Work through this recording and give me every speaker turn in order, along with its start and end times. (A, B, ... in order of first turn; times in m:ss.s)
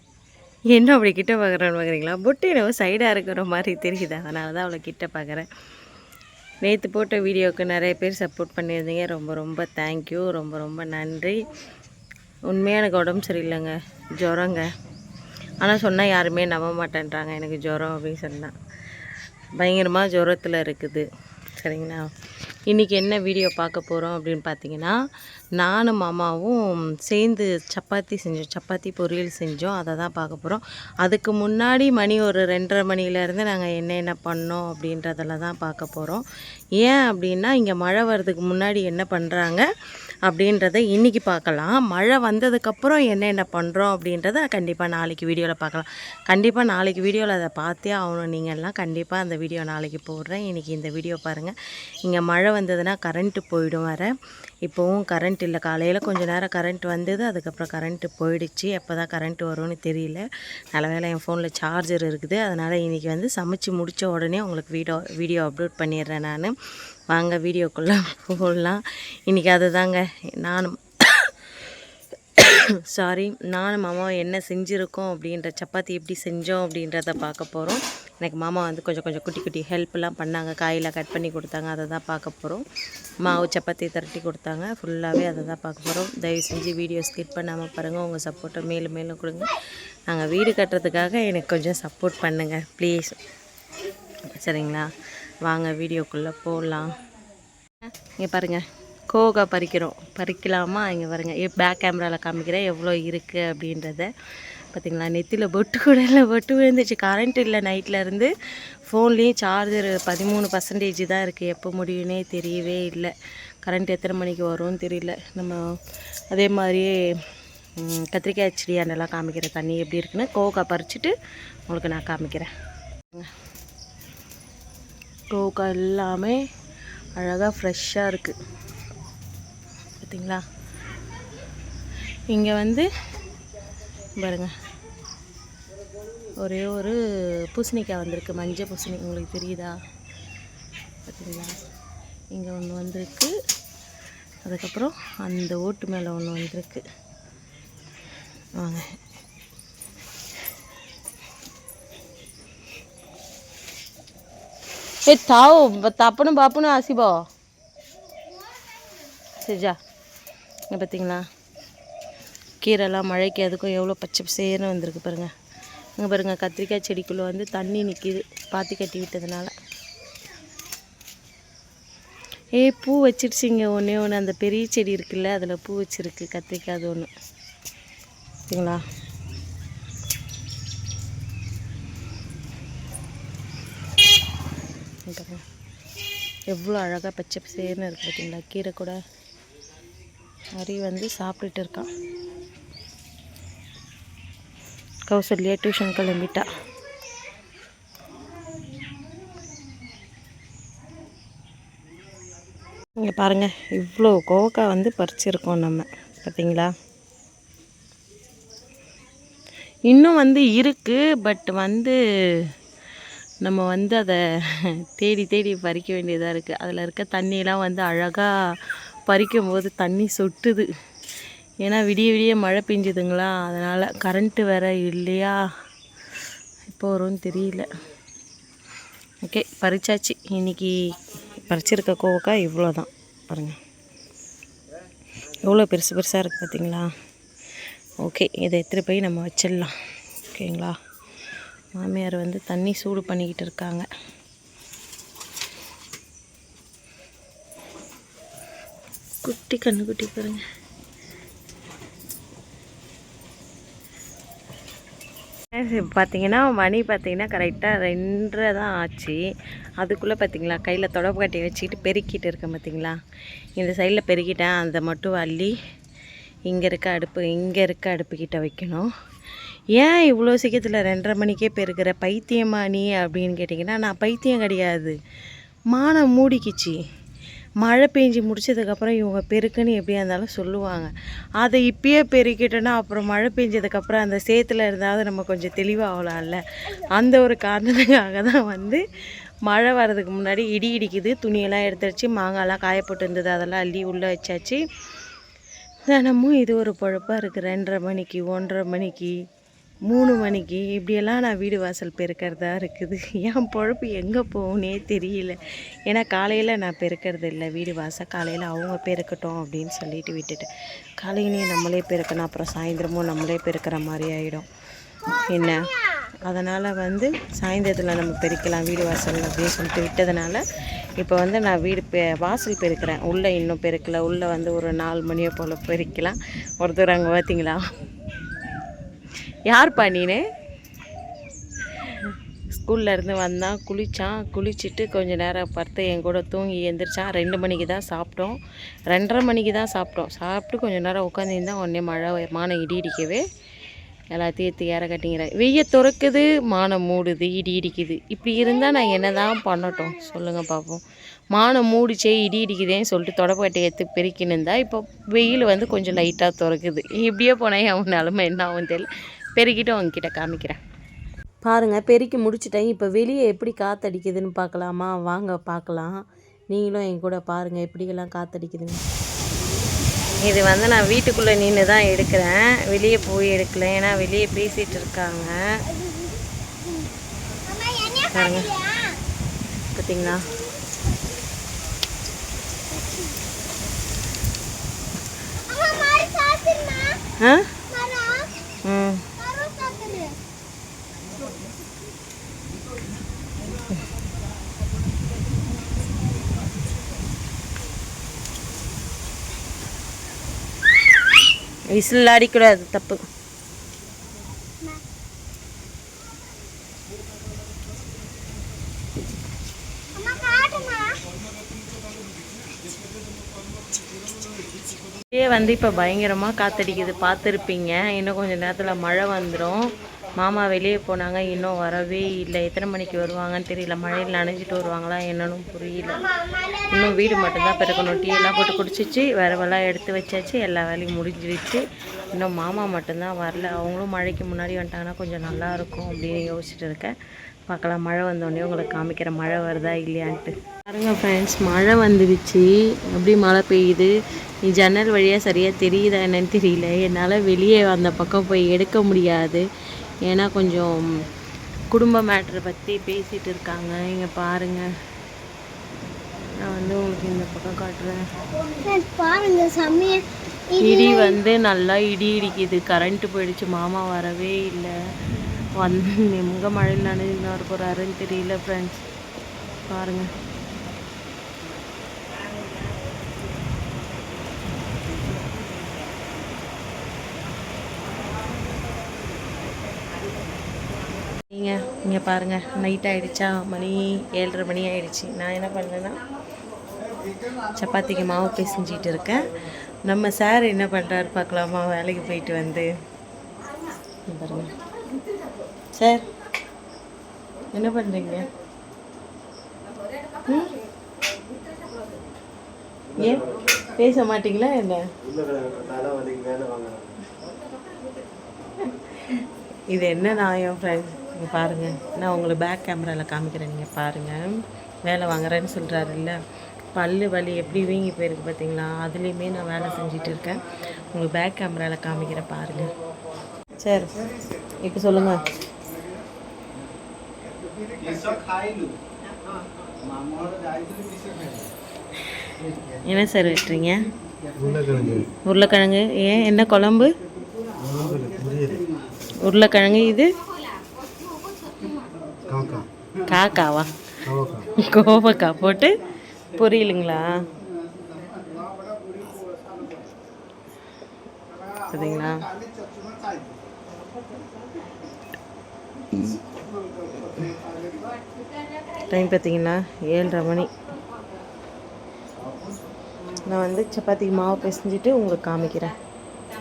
0:00.7-0:05.5 A
0:06.6-0:11.4 A
0:12.5-0:14.7 A
0:15.6-0:18.5 A
0:19.6-0:22.1 A
0:22.7-0:25.0 A
0:25.6-0:36.2 A
0:36.8-0:39.6 A
0:40.2-0:54.1 A
0:54.6-1:06.5 A
1:07.1-1:11.5 A
1:12.4-1:22.6 A
1:23.2-1:29.5 A
1:30.1-1:33.2 A
1:34.3-1:34.9 A
1:35.4-1:37.0 A
1:37.9-1:44.1 A
1:44.7-1:48.3 A
1:48.8-1:55.6 A
1:56.3-1:56.9 A
1:57.8-2:01.1 A
2:01.7-2:02.5 A
2:05.3-2:06.4 A
2:07.2-2:08.3 A
2:10.0-2:10.4 A
2:12.3-2:12.9 A
2:14.2-2:14.5 A
2:16.4-2:17.0 A
2:17.5-2:19.8 A
2:21.1-2:21.6 A
2:22.3-2:23.3 A
2:24.4-2:26.8 A
2:28.6-2:28.8 A
2:35.0-2:37.2 A
2:39.4-2:39.8 A
2:40.7-2:41.2 A
2:42.6-2:45.3 A
2:46.0-2:49.5 A
2:52.6-2:57.1 A
2:58.5-2:58.8 A
3:05.1-3:05.4 A
3:06.5-3:09.0 A
3:10.5-3:11.9 A
3:15.1-3:16.5 A
3:23.0-3:26.7 A
3:29.9-3:32.0 A
3:33.4-3:38.3 A
3:39.1-3:40.7 A
3:41.6-3:45.4 A
3:46.7-3:47.7 A
3:49.2-3:53.6 A
3:55.4-3:56.9 A
3:58.0-3:59.7 A
4:00.3-4:00.7 A
4:01.7-4:03.9 A
4:09.2-4:10.4 A
4:15.5-4:19.2 A
4:19.8-4:23.0 A
4:23.6-4:25.5 A
4:26.5-4:28.9 A
4:29.7-4:35.0 A
4:35.7-4:36.8 A
4:37.6-4:48.8 A
4:49.4-4:54.6 A
4:55.9-4:59.2 A
4:59.9-5:14.5 A
5:15.3-5:15.6 A
5:16.2-5:20.4 A
5:21.0-5:27.6 A
5:29.5-5:30.2 A
5:31.8-5:38.4 A
5:38.9-5:43.2 A
5:44.1-6:00.6 A
6:01.4-6:08.8 A
6:10.1-6:15.4 A
6:17.5-6:18.0 B
6:17.9-6:18.6 A
6:19.7-6:20.2 A
6:25.5-6:27.0 B
6:27.2-6:27.6 A
6:27.8-6:28.3 B
6:28.6-6:29.1 A
6:29.3-6:30.1 B
6:41.7-6:43.0 A
6:50.0-6:51.0 B
6:55.1-7:16.9 A
7:17.5-7:23.9 A
7:24.4-7:29.4 A
7:30.0-7:30.8 A
7:31.7-7:34.7 A
7:36.4-7:38.0 A
7:38.6-7:40.1 B
7:40.6-7:44.7 A
7:45.6-7:48.8 A
7:49.7-7:50.1 A
8:01.3-8:06.0 A
8:07.5-8:09.3 A
8:09.8-8:12.7 A
8:14.1-8:14.5 A
8:15.7-8:16.0 A
8:17.5-8:18.3 A
8:20.2-8:20.5 A
8:22.9-8:23.7 C
8:23.0-8:24.8 A
8:25.0-8:27.0 C
8:28.6-8:34.3 A
8:34.8-8:36.2 A
8:36.7-8:42.7 A
8:43.6-8:43.9 A
8:44.6-8:45.2 A
8:52.8-8:53.9 A
8:54.4-8:55.1 C
8:55.2-8:57.0 A
8:57.6-8:58.7 C
8:59.2-9:00.1 A
9:02.3-9:02.7 C
9:03.0-9:03.7 A
9:04.0-9:04.5 C
9:04.5-9:05.7 A
9:06.3-9:07.1 A
9:11.7-9:12.2 A
9:15.9-9:16.2 A
9:17.0-9:17.3 A
9:18.8-9:20.5 A
9:23.3-9:25.7 A